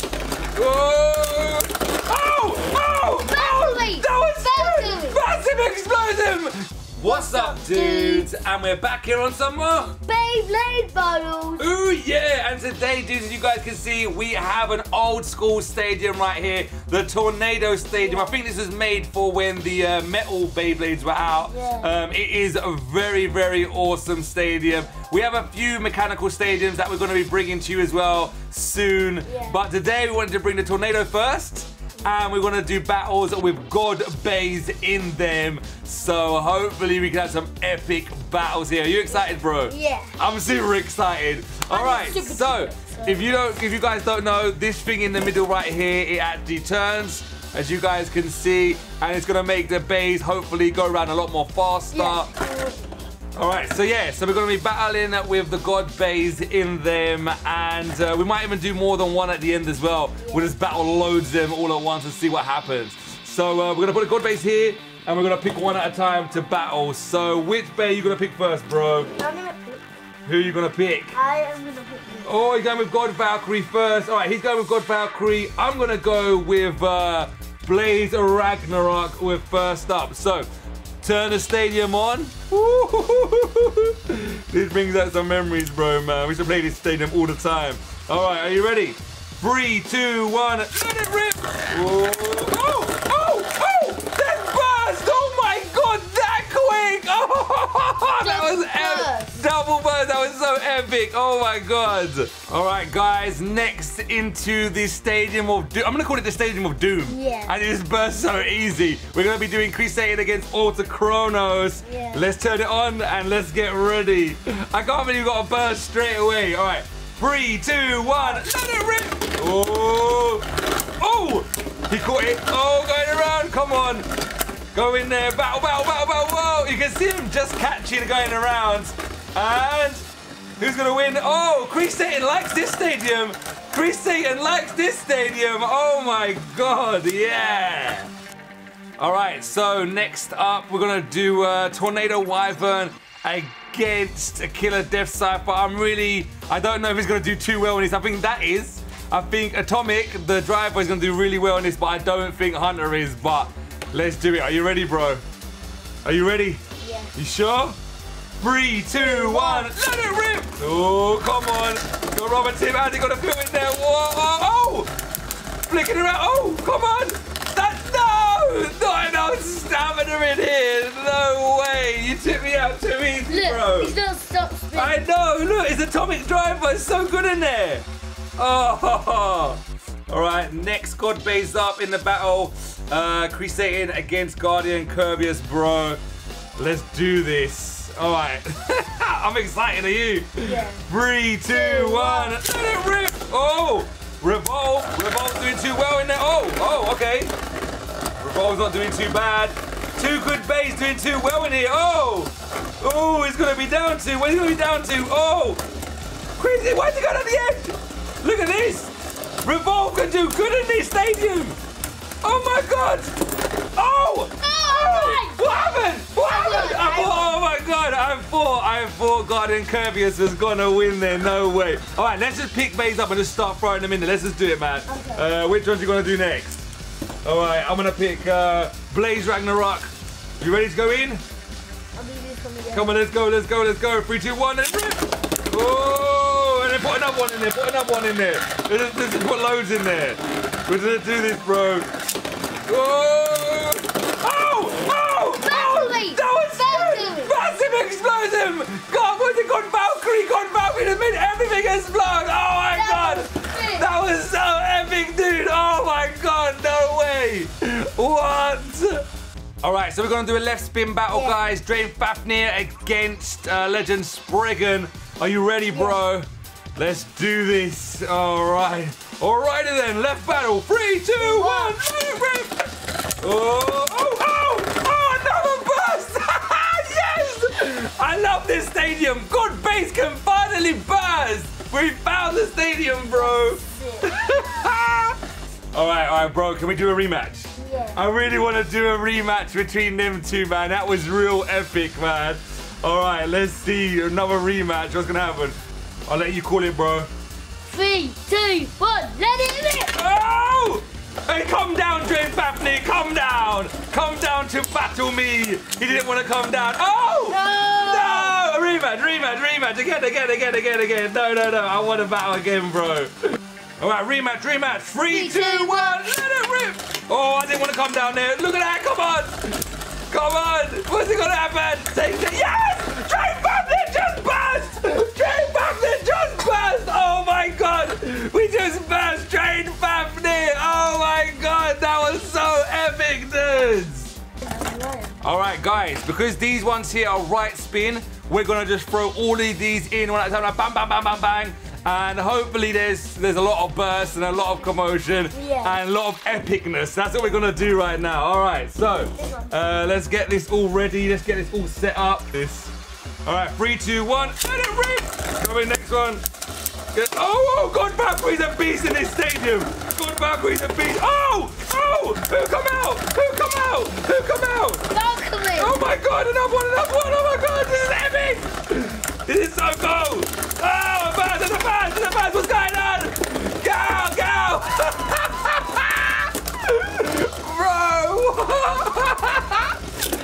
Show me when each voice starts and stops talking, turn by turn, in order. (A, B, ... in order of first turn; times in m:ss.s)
0:00.5-0:10.0 A
0:03.2-0:05.2 B
0:07.0-0:08.3 B
0:10.0-0:11.6 B
0:11.6-0:52.3 A
0:18.0-0:18.4 B
0:21.5-0:21.9 B
0:29.2-0:29.6 B
0:39.1-0:40.2 B
0:41.7-0:43.3 B
0:51.9-0:52.9 B
0:53.4-1:09.1 A
1:00.2-1:00.5 B
1:09.1-1:09.8 B
1:10.2-1:11.1 A
1:11.1-1:12.3 B
1:12.2-1:20.5 A
1:21.0-2:04.1 A
1:38.2-1:39.4 B
1:47.1-1:47.5 B
1:51.8-1:52.2 B
1:58.2-1:58.4 B
2:04.7-2:10.0 A
2:10.6-2:18.1 A
2:19.0-2:35.2 A
2:36.0-2:36.6 A
2:36.8-2:37.1 B
2:37.1-2:37.8 A
2:38.4-2:44.9 A
2:38.9-2:39.7 B
2:45.6-2:53.9 A
2:53.3-2:55.0 B
2:54.7-2:57.8 A
2:58.4-3:06.0 A
3:06.6-3:17.3 A
3:10.4-3:10.8 B
3:11.5-3:12.3 B
3:18.2-3:25.6 A
3:26.4-3:28.9 A
3:29.4-3:31.6 A
3:32.2-3:33.1 A
3:33.7-3:46.7 A
3:34.4-3:37.4 B
3:44.9-3:45.3 B
3:47.2-3:51.2 A
3:51.9-3:52.9 B
3:52.7-4:01.9 A
4:02.7-4:19.0 A
4:05.4-4:07.3 B
4:12.7-4:13.9 B
4:19.6-4:32.6 A
4:21.1-4:21.4 B
4:25.7-4:26.0 B
4:31.1-4:31.8 B
4:33.2-4:45.2 A
4:43.1-4:44.1 B
4:45.7-4:57.1 A
4:47.6-4:48.0 B
4:57.6-4:59.9 B
4:59.9-5:13.1 A
5:07.3-5:08.4 B
5:13.8-5:34.1 A
5:15.1-5:16.0 B
5:34.4-5:35.2 B
5:35.2-5:52.7 A
5:45.3-5:45.8 B
5:49.1-5:49.6 B
5:53.2-5:56.2 A
5:56.9-6:04.9 A
6:04.9-6:05.8 B
6:05.5-6:19.8 A